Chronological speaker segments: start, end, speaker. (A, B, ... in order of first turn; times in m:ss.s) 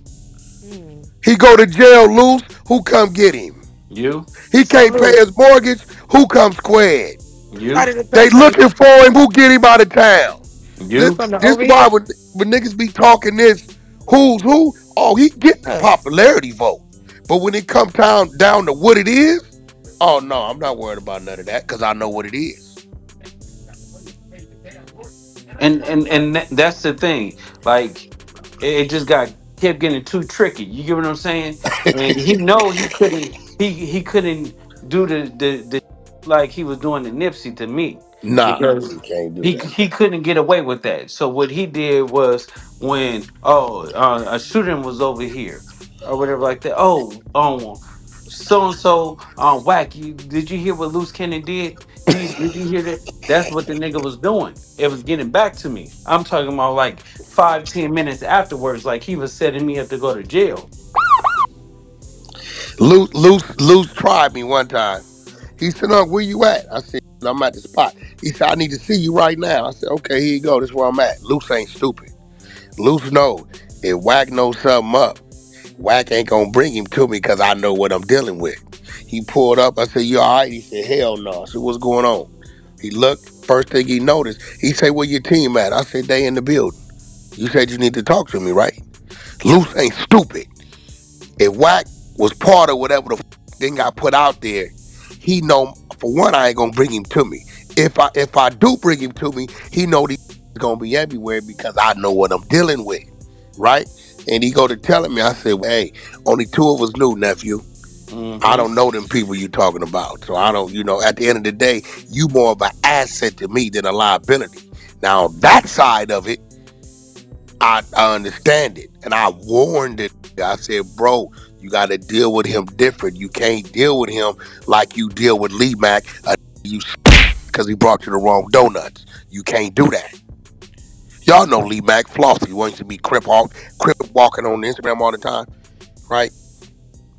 0:00.6-0:01.1 A
0:01.2-0:03.6 B
0:03.9-0:04.3 C
0:04.5-0:07.2 B
0:04.6-0:05.2 A
0:07.5-0:07.9 C
0:07.7-0:08.6 A
0:08.1-0:10.4 B
0:10.8-0:11.2 C
0:11.0-0:22.8 B
0:11.2-0:11.8 A
0:25.6-0:28.1 C
0:28.6-0:38.9 C
0:32.1-0:32.9 B
0:38.2-0:39.7 B
0:39.4-1:00.7 C
1:02.8-1:05.0 B
1:05.6-1:12.1 B
1:12.8-1:15.2 B
1:15.8-1:22.3 B
1:22.8-1:26.8 B
1:27.4-1:28.8 B
1:29.4-1:30.5 B
1:31.4-1:47.7 B
1:48.1-1:48.7 C
1:48.4-1:56.4 B
1:57.6-2:07.0 B
2:07.5-2:10.1 B
2:11.2-2:15.5 B